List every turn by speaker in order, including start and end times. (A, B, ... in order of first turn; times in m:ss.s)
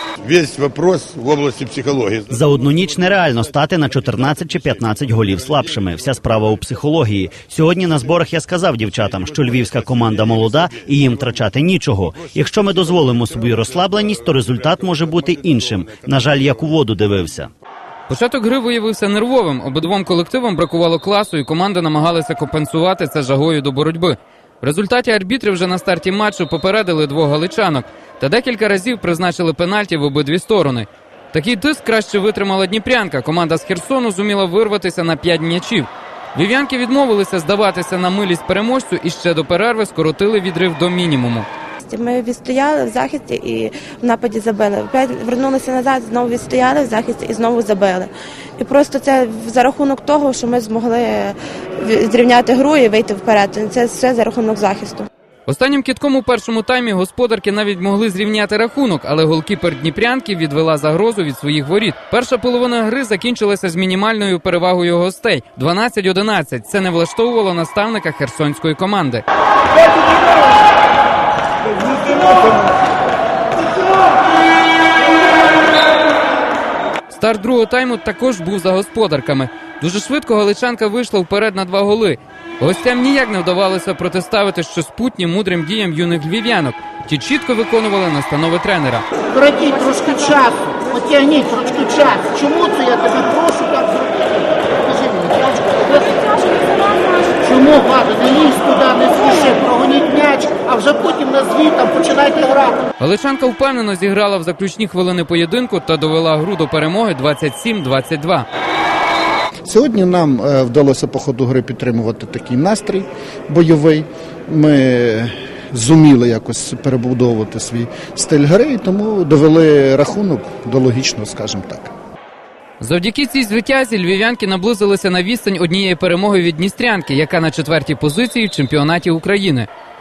0:00.2-0:02.3 A
0:02.3-0:17.5 B
0:18.1-0:41.5 C
0:41.8-0:55.1 D
0:55.5-1:09.2 C
1:17.1-1:29.0 C
1:29.3-1:36.8 E
1:37.4-1:42.8 E
1:43.0-1:48.5 C
1:49.7-2:01.9 F
2:02.8-2:09.7 C